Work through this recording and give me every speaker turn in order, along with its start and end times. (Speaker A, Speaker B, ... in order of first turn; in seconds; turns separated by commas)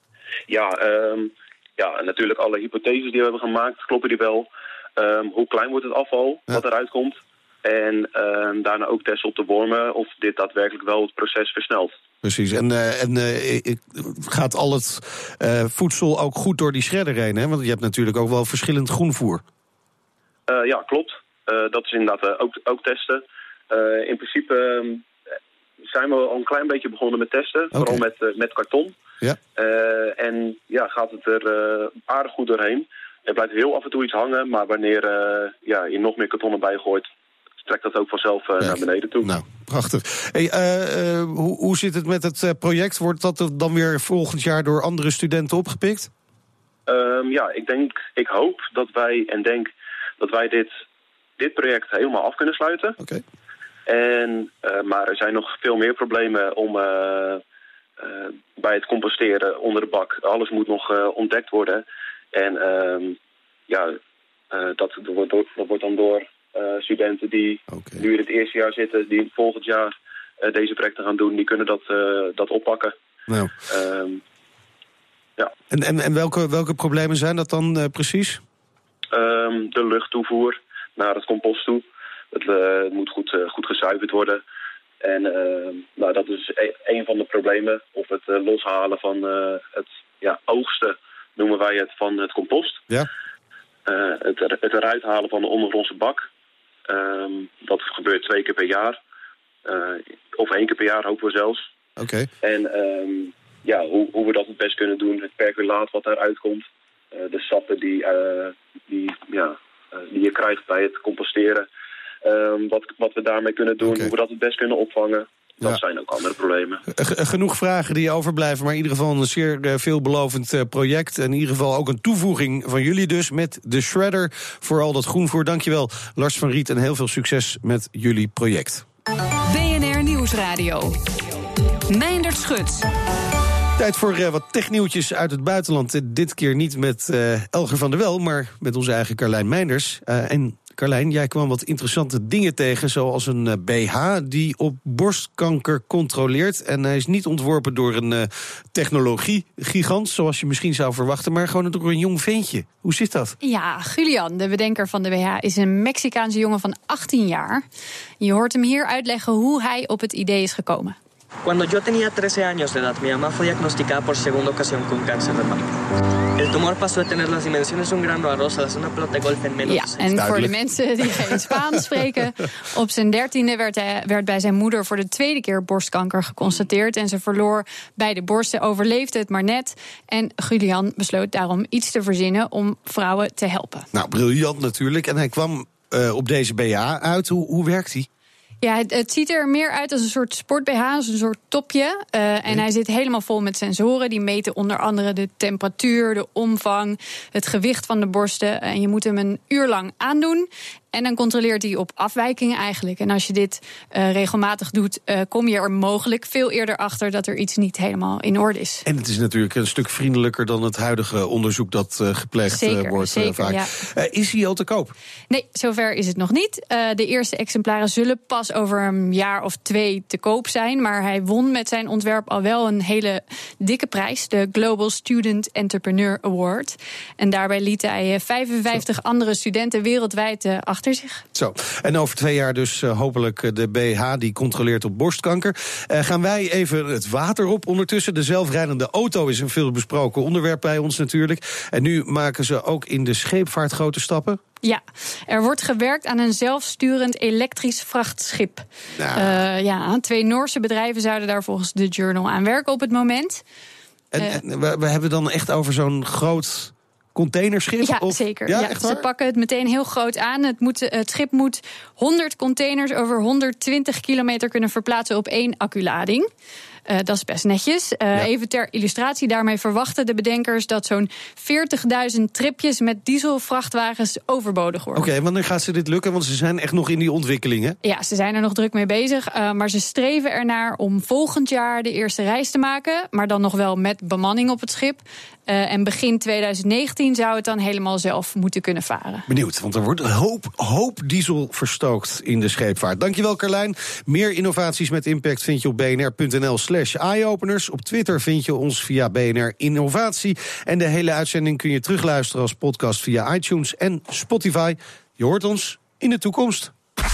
Speaker A: 0.5-11.9, Speaker B: 12.2-19.4, Speaker A: 20.5-25.1, Speaker A: 25.9-28.9, Speaker B: 27.7-28.0, Speaker A: 29.5-37.1, Speaker A: 37.6-39.3, Speaker B: 38.6-46.1, Speaker A: 46.9-50.7, Speaker A: 51.4-53.0, Speaker A: 53.9-57.4, Speaker A: 58.0-63.2, Speaker A: 63.7-64.0, Speaker A: 64.5-72.9, Speaker B: 67.7-68.0, Speaker B: 73.3-73.5, Speaker A: 73.7-74.2, Speaker B: 75.7-78.4, Speaker A: 79.1-84.4, Speaker A: 85.0-92.9, Speaker A: 93.8-96.2, Speaker A: 96.9-99.0, Speaker A: 99.6-101.7, Speaker B: 102.0-102.3, Speaker A: 102.4-111.7, Speaker A: 112.2-116.8, Speaker B: 113.8-114.1, Speaker B: 116.9-128.8, Speaker C: 129.4-131.0, Speaker C: 131.9-132.8, Speaker B: 133.8-153.3, Speaker D: 153.4-157.6, Speaker D: 158.2-161.0, Speaker E: 161.4-165.6, Speaker E: 166.4-170.3, Speaker D: 169.6-183.9, Speaker B: 170.2-170.5, Speaker B: 183.9-188.1, Speaker D: 188.6-208.8, Speaker B: 208.8-214.9, Speaker D: 212.5-213.7, Speaker D: 215.3-231.2, Speaker B: 231.3-244.4, Speaker D: 244.6-253.4, Speaker B: 248.9-249.4, Speaker B: 254.1-259.0, Speaker D: 257.8-266.3, Speaker D: 266.9-275.1, Speaker B: 274.9-277.8, Speaker D: 277.8-289.3, Speaker B: 289.3-306.7